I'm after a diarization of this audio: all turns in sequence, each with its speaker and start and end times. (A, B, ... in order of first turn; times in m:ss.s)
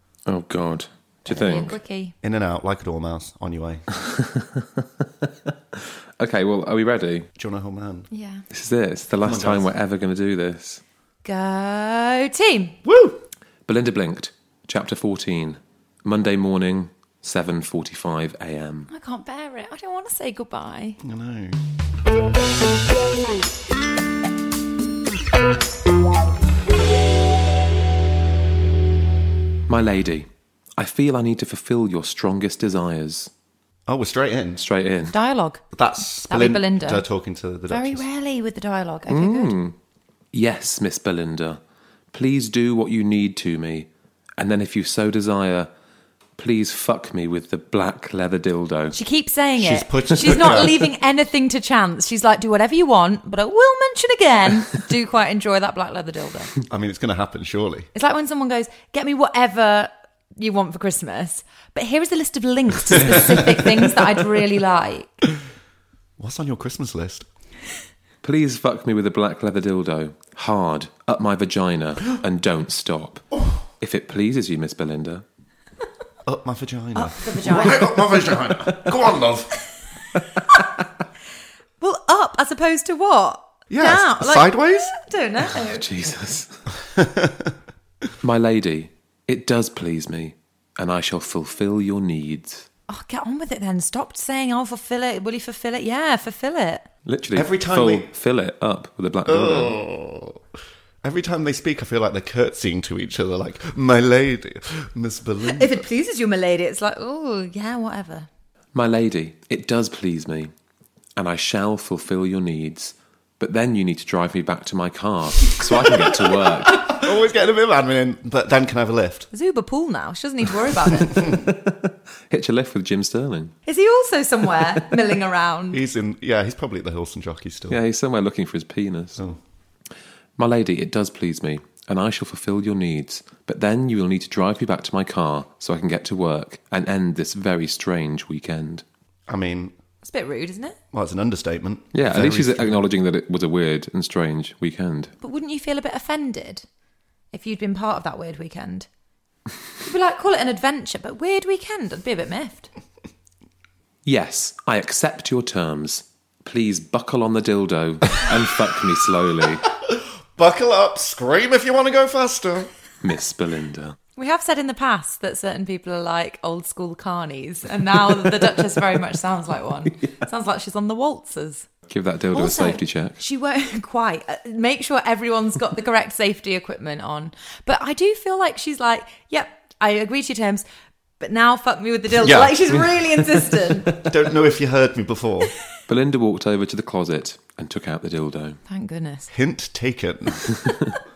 0:00.2-0:01.8 A
0:01.3-0:02.1 B
0:02.2-0:03.9 C
0:04.0-0:07.3 A
0:07.4-0:08.1 C
0:08.1-0:08.4 B
0:08.5-0:10.8 A
0:09.2-0:09.7 C
0:11.2-0:12.8 B
0:12.8-0:13.2 C
0:13.6-0:18.9 A
0:18.9-0:21.0 B
0:21.0-0:21.6 C
0:29.7-0:33.3 A
0:33.9-0:34.6 C
0:34.6-0:35.1 A
0:35.1-0:35.6 B
0:35.7-0:38.0 C
0:36.2-0:37.0 B
0:37.7-0:39.6 B
0:39.1-0:39.7 A
0:40.3-0:41.6 A
0:42.1-0:45.7 A
0:46.4-0:49.0 A
0:48.9-0:56.5 B
0:49.6-0:50.8 C
0:56.7-0:57.9 C
0:57.9-1:05.2 B
1:03.0-1:03.4 A
1:06.2-1:07.3 C
1:08.2-1:13.2 A
1:13.8-1:15.2 A
1:16.2-1:19.5 C
1:16.9-1:18.0 B
1:21.8-1:25.8 B
1:23.7-1:24.9 C
1:25.7-1:26.5 A
1:26.8-1:27.6 C
1:28.2-1:32.7 A
1:32.9-1:36.9 B
1:37.0-1:39.8 A
1:37.3-1:38.1 C
1:39.2-1:40.4 C
1:41.0-1:45.8 C
1:45.5-1:48.3 B
1:48.7-1:50.5 A
1:51.2-1:57.0 A
1:56.0-1:59.3 C
1:59.3-2:01.2 B
2:01.2-2:03.5 A
2:03.6-2:05.8 B
2:05.7-2:07.8 C
2:07.7-2:09.2 A
2:10.4-2:18.8 A
2:19.3-2:19.7 C
2:20.0-2:20.8 B
2:20.9-2:22.8 C
2:21.9-2:25.1 A
2:25.2-2:26.6 B
2:27.3-2:28.9 B
2:29.8-2:32.7 B
2:34.0-2:39.7 A
2:39.8-2:42.7 C
2:43.0-2:44.0 A
2:44.2-2:51.7 B
2:51.9-2:53.2 A
2:52.3-3:00.6 B
3:01.2-3:03.9 B
3:02.2-3:02.8 C
3:04.0-3:05.5 C
3:05.9-3:08.6 A
3:08.7-3:09.3 B
3:09.3-3:10.5 C